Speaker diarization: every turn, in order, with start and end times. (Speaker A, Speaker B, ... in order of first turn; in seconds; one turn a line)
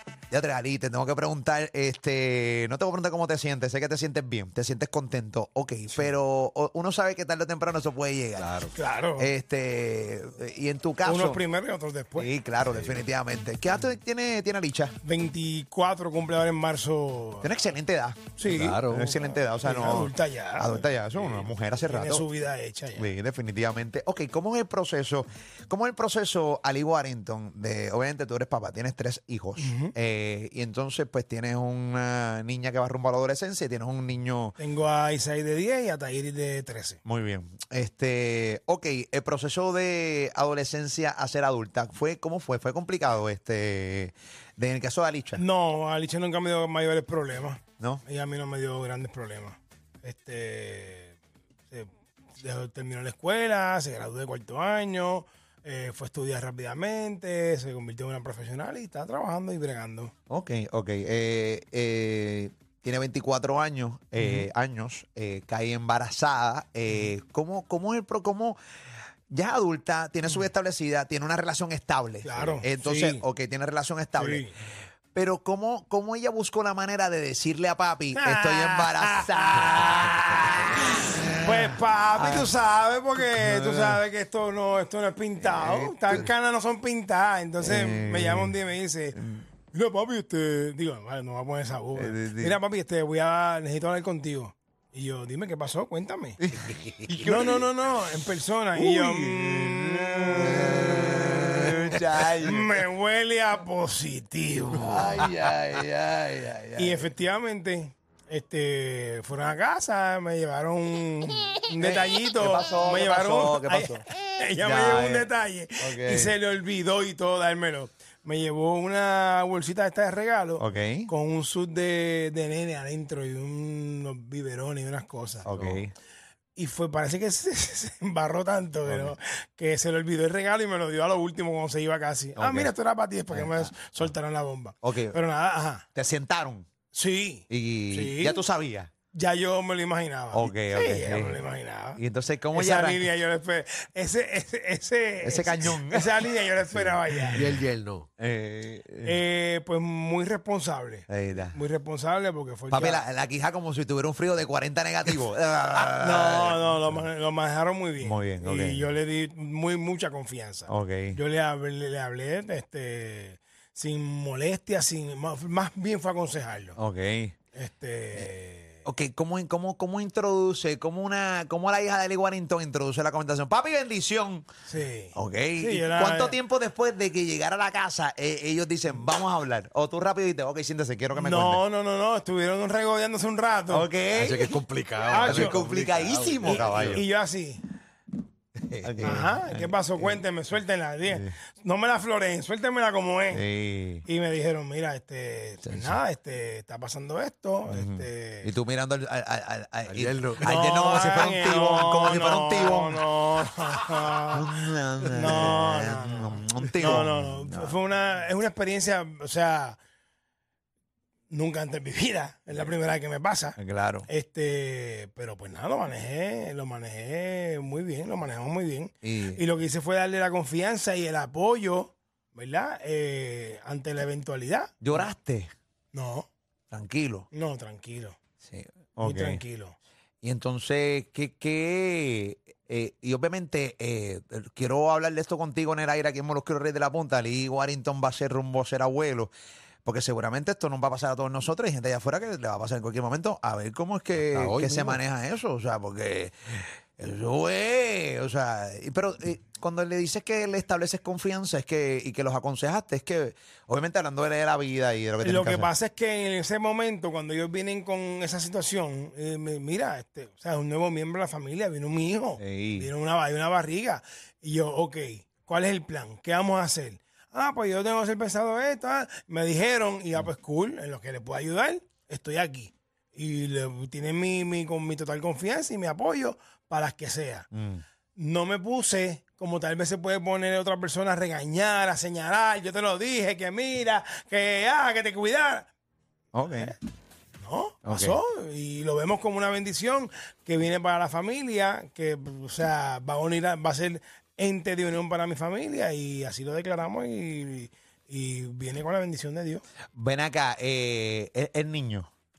Speaker A: 0.3-8.6
Speaker B: 8.4-8.7
Speaker C: 8.7-9.3
Speaker A: 9.2-11.4
Speaker C: 11.0-12.3
Speaker A: 12.2-15.0
Speaker C: 15.0-17.5
Speaker A: 17.4-22.3
Speaker C: 18.4-23.1
Speaker B: 18.4-19.1
Speaker A: 22.9-34.5
Speaker C: 29.6-29.9
Speaker C: 34.6-37.0
Speaker A: 37.0-45.4
Speaker C: 45.4-51.2
Speaker A: 47.8-48.0
Speaker C: 51.7-60.1
Speaker A: 60.3-68.6
Speaker C: 64.2-64.5
Speaker A: 69.3-74.5
Speaker C: 72.2-73.2
Speaker C: 74.2-74.5
Speaker A: 75.1-82.5
Speaker C: 78.1-80.6
Speaker C: 81.4-89.2
Speaker A: 83.2-84.0
Speaker A: 85.4-86.3
Speaker A: 87.6-88.6
Speaker A: 89.2-89.4
Speaker C: 89.7-96.4
Speaker A: 92.0-92.6
Speaker A: 96.4-97.7
Speaker C: 97.2-105.3
Speaker A: 98.8-102.8
Speaker A: 104.7-107.1
Speaker C: 106.8-125.5
Speaker A: 111.8-116.4
Speaker A: 120.6-121.1
Speaker A: 125.4-125.9
Speaker B: 125.5-125.8
Speaker C: 126.5-135.9
Speaker A: 128.9-129.2
Speaker A: 132.4-132.7
Speaker A: 133.3-134.1
Speaker A: 134.8-135.2
Speaker A: 135.9-136.7
Speaker C: 136.9-138.4
Speaker A: 137.5-138.9
Speaker C: 139.1-142.0
Speaker A: 140.3-141.4
Speaker A: 142.0-143.1
Speaker C: 142.5-147.5
Speaker A: 145.2-147.6
Speaker B: 147.3-148.1
Speaker A: 148.2-149.2
Speaker C: 149.0-153.1
Speaker A: 151.1-151.6
Speaker A: 152.7-157.1
Speaker C: 156.0-166.8
Speaker A: 158.0-158.9
Speaker A: 160.7-161.2
Speaker A: 166.8-167.3
Speaker C: 167.5-168.8
Speaker A: 168.8-174.5
Speaker C: 174.7-176.4
Speaker A: 175.1-181.6
Speaker C: 181.1-183.9
Speaker A: 183.7-184.6
Speaker B: 184.2-187.0
Speaker C: 185.1-185.6
Speaker A: 185.2-187.0
Speaker C: 186.4-187.6
Speaker B: 188.6-189.1
Speaker A: 188.8-190.2
Speaker C: 189.0-193.4
Speaker A: 191.1-191.3
Speaker A: 193.3-194.1
Speaker C: 194.1-198.5
Speaker A: 195.6-196.0
Speaker A: 197.7-203.1
Speaker B: 199.9-200.5
Speaker C: 200.4-204.5
Speaker A: 204.3-207.8
Speaker C: 205.0-209.8
Speaker C: 211.3-225.1
Speaker A: 213.6-214.1
Speaker A: 219.0-219.4
Speaker A: 224.8-225.5
Speaker C: 225.9-226.3
Speaker A: 226.7-227.3
Speaker C: 227.3-228.2
Speaker A: 228.4-229.4
Speaker C: 229.0-229.8
Speaker A: 230.2-239.3
Speaker A: 239.8-255.7
Speaker B: 244.2-245.0
Speaker C: 255.2-277.5
Speaker A: 262.4-262.9
Speaker A: 277.5-277.8
Speaker C: 278.1-285.7
Speaker A: 286.3-286.8
Speaker C: 286.4-286.8
Speaker C: 287.4-299.6
Speaker A: 287.9-288.2
Speaker A: 299.9-302.1